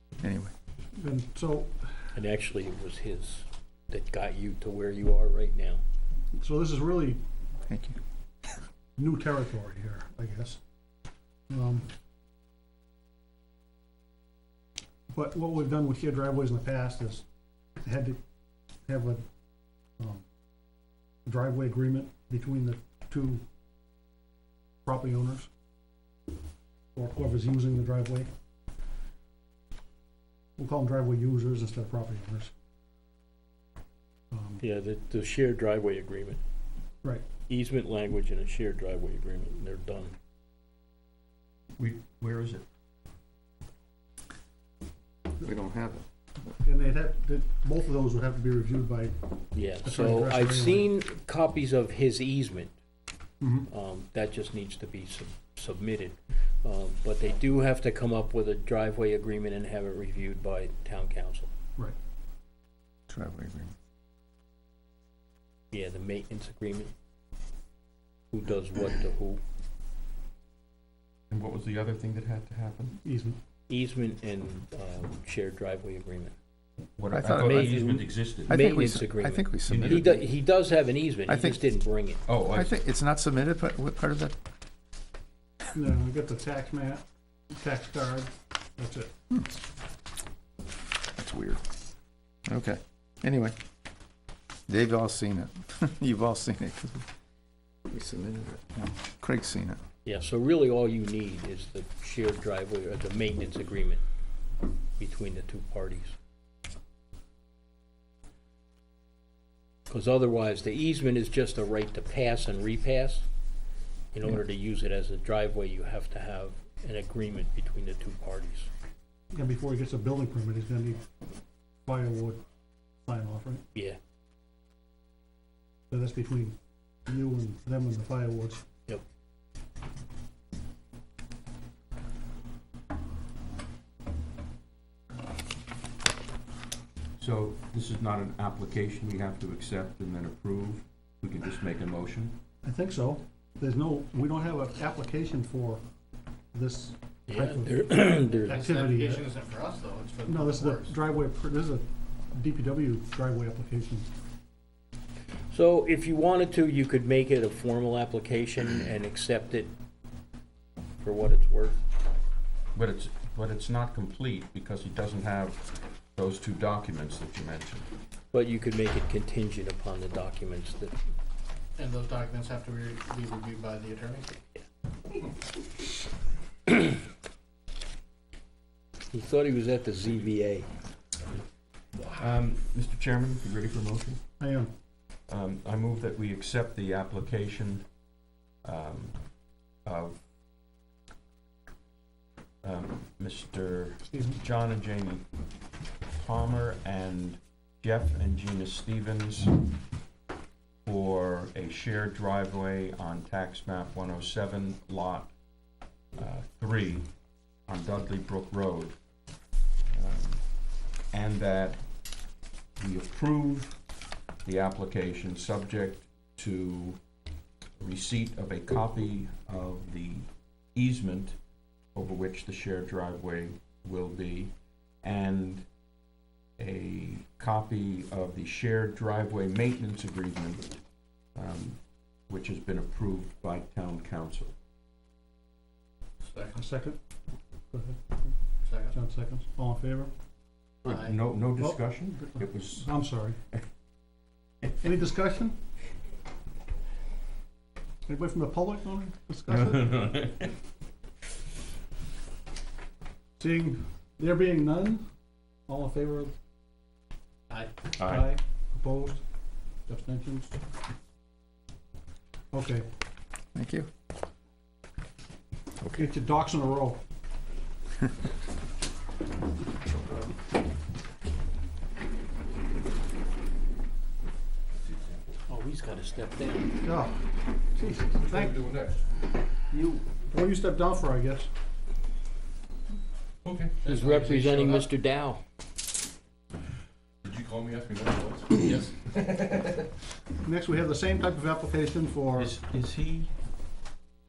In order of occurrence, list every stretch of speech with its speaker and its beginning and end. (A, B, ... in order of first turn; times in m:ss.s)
0:00.2-0:00.5 A
0:01.0-0:01.7 B
0:02.2-0:05.8 C
0:06.4-0:07.2 B
0:07.7-0:08.0 A
0:09.0-0:10.6 B
0:11.5-0:11.9 B
0:15.1-0:17.2 B
0:17.8-0:18.2 B
0:18.9-0:19.2 B
0:20.0-0:20.2 B
0:21.3-0:23.4 B
0:24.9-0:25.5 B
0:27.0-0:28.3 B
0:30.6-0:32.5 B
0:34.3-0:34.6 B
0:34.6-0:36.4 C
0:37.5-0:40.2 C
0:41.8-0:42.6 D
0:45.4-0:46.0 A
0:46.6-0:49.2 B
0:49.5-0:52.7 C
0:49.8-0:50.9 B
0:53.4-0:53.7 B
0:53.7-1:01.5 C
1:03.1-1:03.7 A
1:05.7-1:06.9 C
1:08.3-1:09.4 C
1:11.3-1:13.0 D
1:13.0-1:13.4 B
1:13.7-1:16.4 C
1:17.0-1:18.6 D
1:17.1-1:20.2 A
1:17.4-1:22.2 C
1:19.7-1:20.2 D
1:21.3-1:21.6 A
1:22.3-1:22.7 D
1:22.5-1:24.4 A
1:25.7-1:29.1 B
1:31.2-1:31.6 A
1:32.5-1:33.6 A
1:34.7-1:37.1 A
1:37.9-1:39.8 A
1:40.0-1:44.0 C
1:45.0-1:46.2 C
1:49.9-1:53.3 C
1:54.1-1:58.7 C
1:59.3-2:01.0 B
2:01.8-2:02.4 B
2:03.0-2:03.6 B
2:03.7-2:04.0 C
2:05.9-2:08.6 B
2:17.2-2:22.4 D
2:22.6-2:25.8 B
2:26.5-2:29.3 B
2:27.3-2:28.6 C
2:28.4-2:30.9 E
2:30.3-2:34.1 B
2:35.5-2:39.7 C
2:41.0-2:41.8 C
2:42.8-2:47.9 D
2:48.3-2:51.0 C
2:51.8-2:54.4 E
2:59.1-3:00.7 C
3:02.1-3:04.2 D
3:04.4-3:04.7 B
3:05.3-3:07.9 D
3:08.6-3:09.2 D
3:09.8-3:10.2 D
3:12.6-3:15.2 D
3:14.1-3:14.4 B
3:16.1-3:19.6 D
3:20.8-3:25.3 D
3:26.1-3:27.1 D
3:27.7-3:29.0 D
3:29.9-3:30.4 D
3:31.1-3:31.8 D
3:32.8-3:33.8 D
3:34.4-3:37.0 D
3:37.8-3:41.4 D
3:41.9-3:45.6 D
3:46.6-3:50.8 D
3:51.4-3:54.6 D
3:56.2-3:56.6 E
3:56.5-3:57.0 B
3:57.7-3:58.3 B
3:58.6-3:59.0 E
3:58.9-4:00.1 B
4:00.8-4:01.2 E
4:00.8-4:02.9 D
4:01.6-4:03.4 B
4:04.8-4:05.6 B
4:08.1-4:10.0 B
4:09.5-4:10.5 D
4:13.4-4:15.0 B
4:15.7-4:16.3 B
4:18.0-4:18.3 D
4:18.0-4:19.2 B
4:19.9-4:20.6 B
4:22.5-4:22.9 B
4:23.6-4:23.9 A
4:25.9-4:27.0 B
4:35.5-4:36.8 C
4:36.8-4:37.2 B
4:37.7-4:38.7 B
4:38.0-4:39.0 F
4:39.7-4:41.5 B
4:43.8-4:44.9 E
4:43.8-4:45.4 C
4:47.2-4:48.8 F
4:47.8-4:49.1 D
4:50.4-4:52.6 B
4:52.4-4:53.3 D